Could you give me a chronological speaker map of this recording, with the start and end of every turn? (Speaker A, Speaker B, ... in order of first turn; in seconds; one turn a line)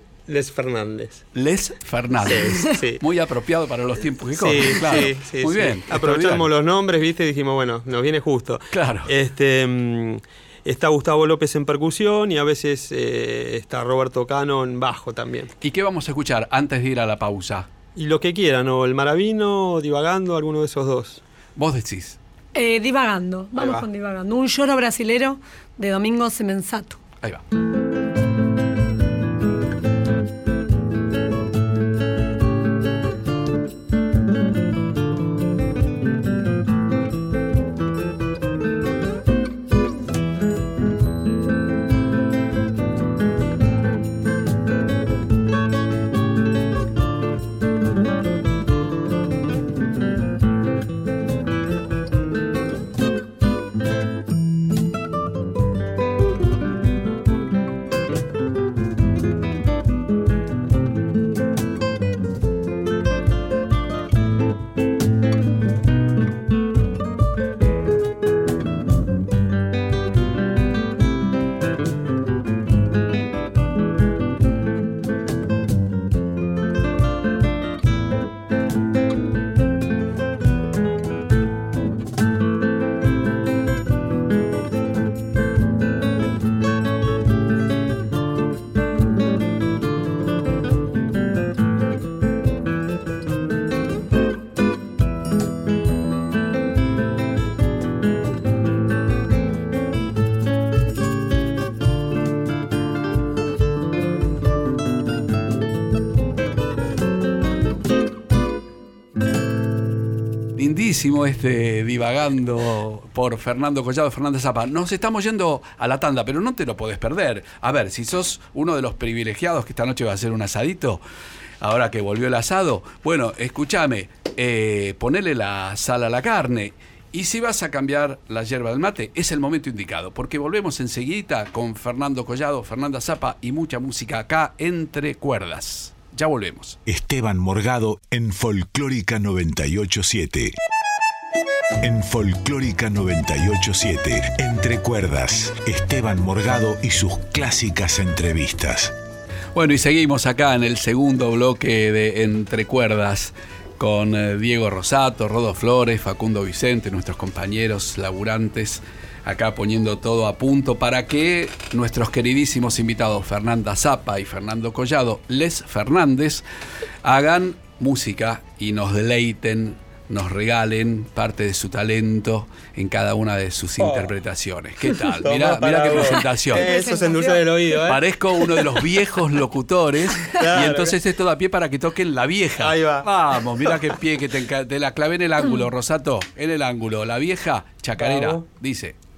Speaker A: 0.3-1.2
Speaker B: 1.3-6.5
Speaker A: 2.2-3.0
Speaker A: 4.3-15.5
Speaker B: 8.7-9.1
Speaker B: 15.6-17.7
Speaker A: 17.9-21.2
Speaker B: 21.6-22.2
Speaker C: 22.5-27.0
Speaker B: 110.5-121.0
Speaker B: 121.6-136.8
Speaker D: 136.9-140.5
Speaker D: 141.8-148.9
Speaker B: 149.5-166.4
Speaker B: 167.0-176.7
Speaker A: 173.8-174.1
Speaker A: 175.0-178.1
Speaker C: 176.5-177.8
Speaker B: 177.8-189.0
Speaker A: 180.3-181.0
Speaker A: 182.6-183.1
Speaker A: 188.0-188.4